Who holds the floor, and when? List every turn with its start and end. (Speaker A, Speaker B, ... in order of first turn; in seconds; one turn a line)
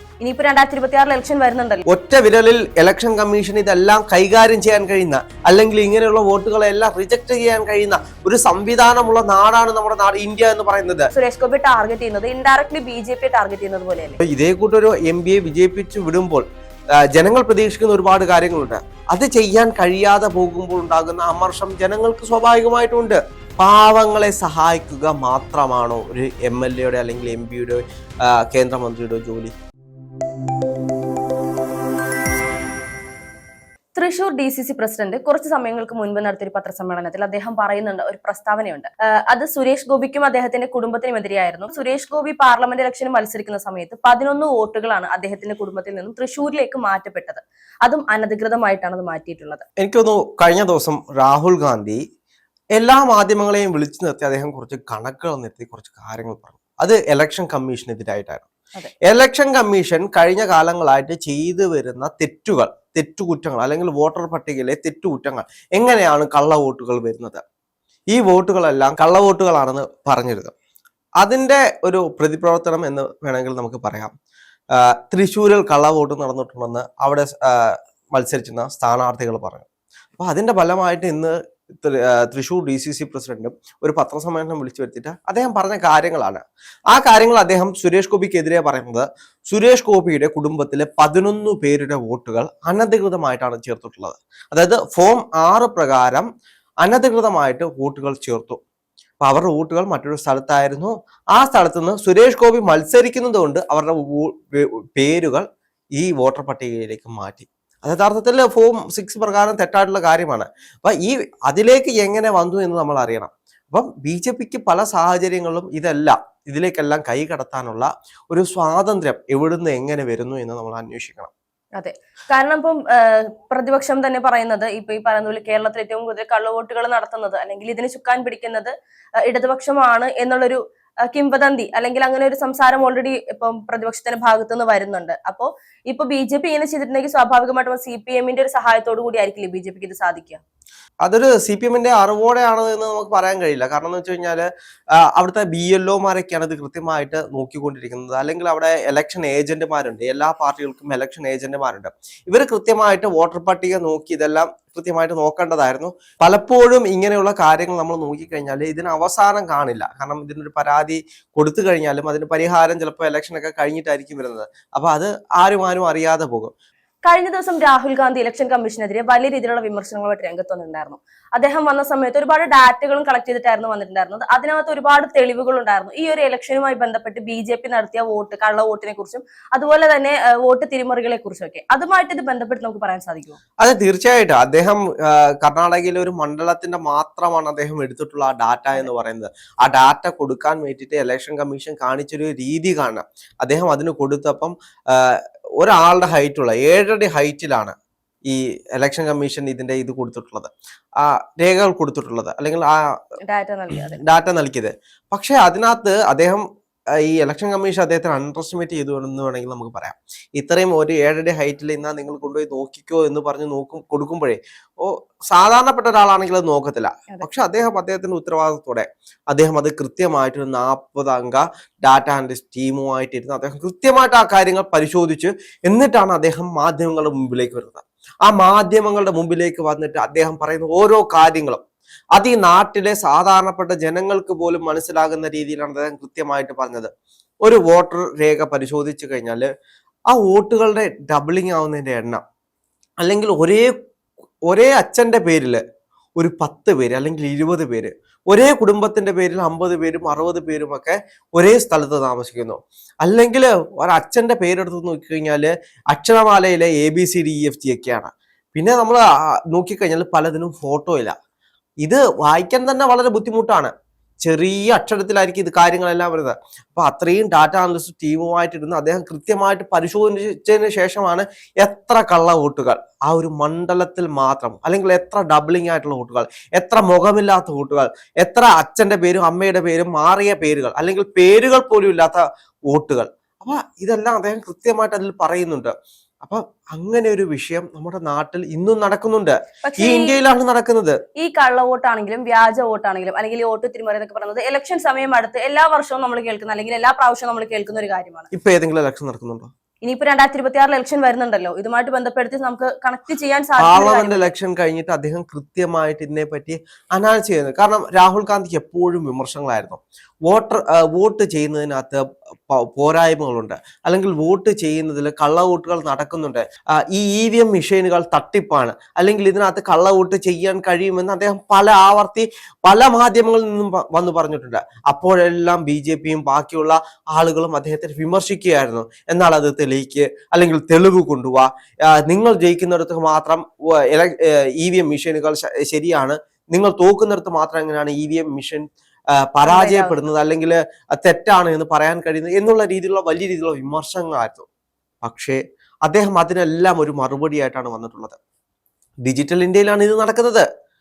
Speaker A: 0.2-1.8
Speaker B: 1.9-11.1
Speaker A: 11.1-14.2
Speaker B: 14.2-16.4
Speaker B: 17.1-29.5
Speaker A: 33.9-49.6
Speaker B: 49.8-52.0
Speaker B: 52.8-58.5
Speaker B: 59.1-67.4
Speaker B: 68.1-70.5
Speaker B: 71.2-74.1
Speaker B: 74.8-79.7
Speaker B: 80.2-96.3
Speaker B: 96.8-98.6
Speaker B: 99.2-105.4
Speaker B: 106.0-121.3
Speaker A: 121.8-128.7
Speaker A: 129.2-140.4
Speaker B: 141.0-144.5
Speaker B: 145.0-166.5
Speaker A: 167.0-183.4
Speaker B: 183.6-197.7
Speaker B: 198.3-203.0
Speaker A: 203.2-204.0
Speaker B: 203.9-206.4
Speaker B: 207.0-231.6
Speaker B: 232.1-236.9
Speaker B: 237.4-239.4
Speaker B: 240.1-242.2
Speaker B: 243.0-243.7
Speaker B: 244.5-245.6
Speaker B: 246.2-261.1
Speaker B: 261.8-263.7
Speaker B: 264.2-291.0
Speaker A: 289.6-290.2
Speaker A: 291.1-298.3
Speaker B: 298.3-299.5
Speaker A: 299.8-304.3
Speaker B: 303.6-338.7
Speaker B: 339.2-344.4
Speaker A: 339.4-340.0
Speaker B: 345.0-348.2
Speaker B: 349.0-350.4